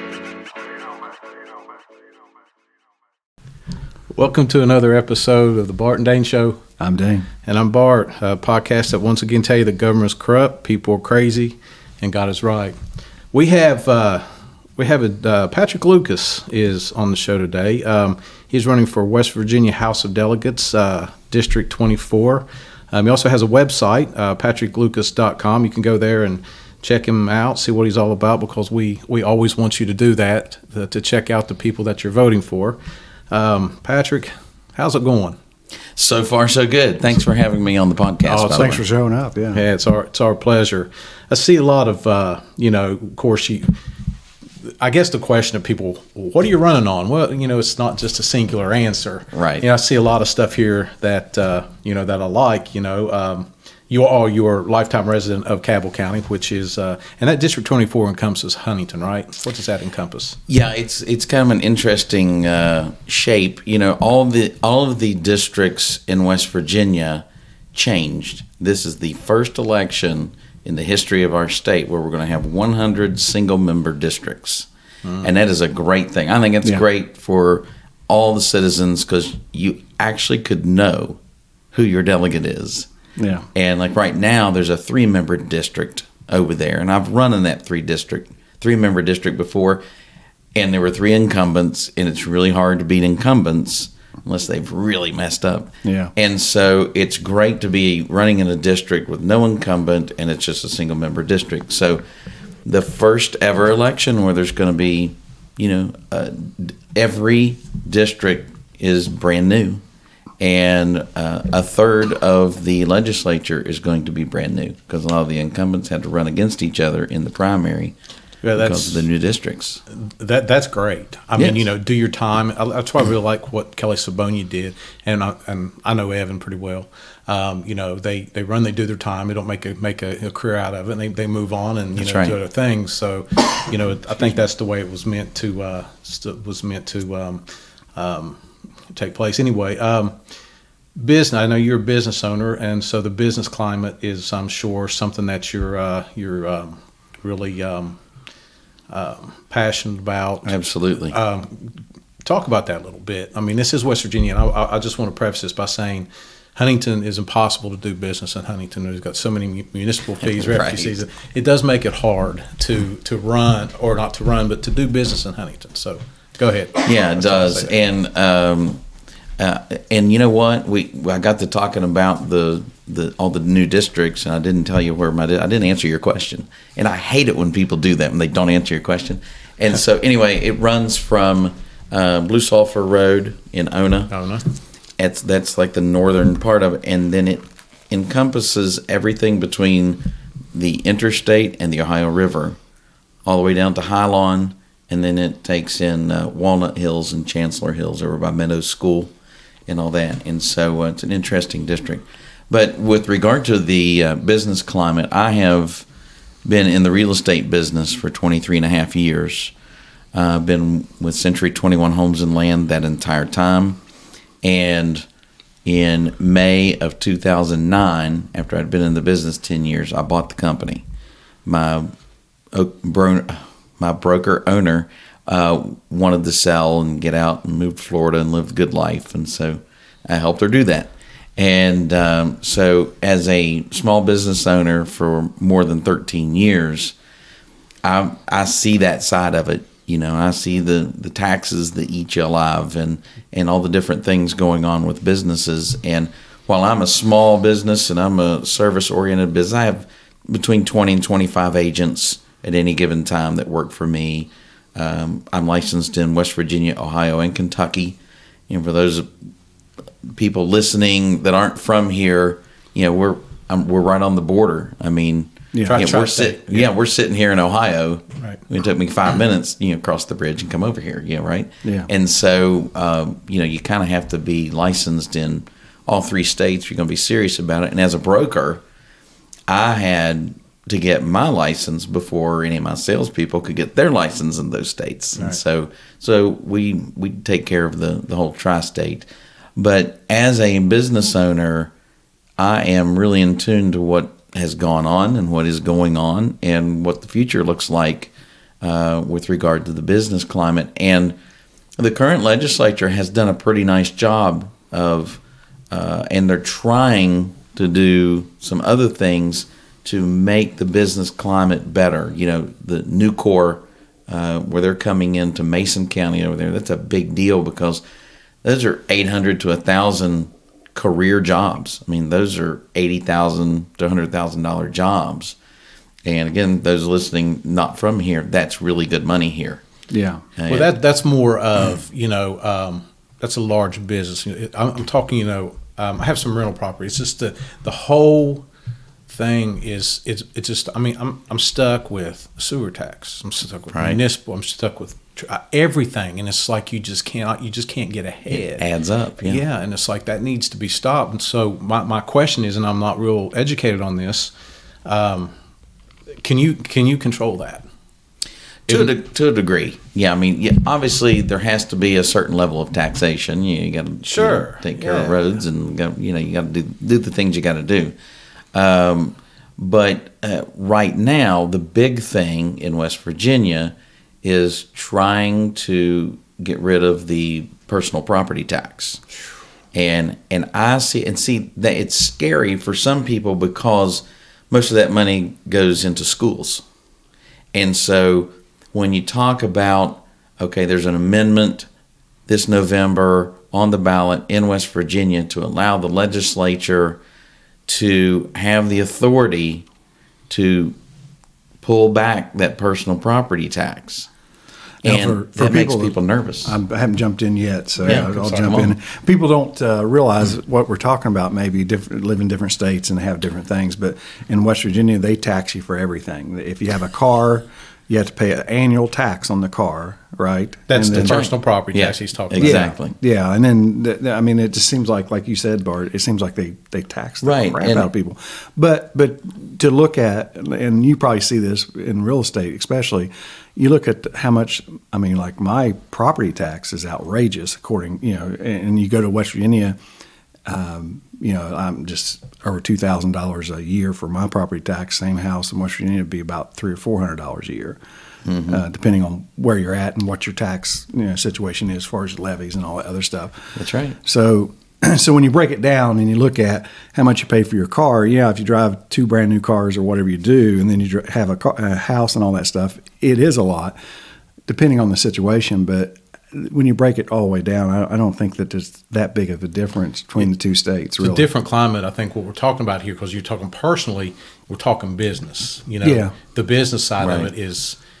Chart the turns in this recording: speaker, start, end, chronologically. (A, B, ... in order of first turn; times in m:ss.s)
0:04.1-0:06.6 A
0:06.8-0:07.3 B
0:07.4-0:12.8 A
0:13.3-0:32.8 A
0:33.3-0:35.4 A
0:36.0-0:38.8 C
0:38.2-0:38.8 A
0:38.6-0:39.6 B
0:39.5-0:43.7 A
0:44.6-1:00.4 A
0:49.3-0:49.6 C
1:00.5-1:14.7 C
1:15.2-1:21.2 C
1:21.7-1:22.9 C
1:23.2-1:23.5 B
1:23.5-1:29.8 C
1:30.5-1:42.0 C
1:35.8-1:36.1 B
1:42.6-1:49.8 C
1:50.4-1:58.0 C
1:58.4-1:59.0 A
1:58.6-1:59.8 C
1:59.9-2:17.4 A
2:01.4-2:01.6 C
2:12.0-2:12.4 C
2:17.9-2:20.2 A
2:21.0-2:28.0 A
2:28.9-2:30.5 A
2:30.4-2:31.2 C
2:31.1-2:47.7 A
2:40.2-2:41.0 C
2:46.8-2:48.8 C
2:49.4-3:04.1 C
3:04.1-3:04.4 A
3:05.0-3:12.6 C
3:13.2-3:19.1 C
3:19.7-3:25.8 C
3:26.4-3:29.5 C
3:30.1-3:33.8 C
3:34.4-3:35.0 C
3:35.6-3:40.8 C
3:41.4-3:41.9 C
3:42.5-3:56.9 C
3:57.8-4:18.0 C
4:18.5-4:19.1 C
4:20.0-4:38.6 C
4:25.5-4:25.8 B
4:25.6-4:26.7 A
4:31.6-4:31.9 B
4:39.5-4:51.7 C
4:52.4-5:01.2 C
5:01.8-5:05.2 C
5:05.7-5:17.8 C
5:18.4-5:25.3 C
5:26.0-5:29.6 C
5:29.9-5:30.2 B
5:30.4-5:30.7 C
5:30.5-5:38.4 A
5:39.1-5:48.6 A
5:43.7-5:44.0 C
5:48.4-5:49.4 C
5:49.2-5:54.3 A
5:54.8-5:55.3 A
5:56.2-5:57.6 A
5:58.7-6:08.0 C
6:04.0-6:05.2 A
6:08.5-6:19.0 C
6:19.7-6:26.6 C
6:27.5-6:31.7 C
6:32.3-6:37.0 C
6:37.7-6:39.6 C
6:40.3-6:40.8 C
6:41.6-6:44.1 C
6:44.8-6:46.6 C
6:44.8-7:01.2 B
6:47.8-6:48.5 A
6:47.8-6:48.7 C
7:00.7-7:02.8 A
7:00.9-7:02.9 C
7:02.4-7:19.8 B
7:07.2-7:07.9 C
7:20.4-7:27.8 B
7:28.2-7:28.6 C
7:28.5-7:43.7 B
7:33.6-7:34.0 C
7:44.5-7:51.3 B
7:51.0-7:57.8 A
7:55.8-7:56.1 B
7:57.0-7:57.3 C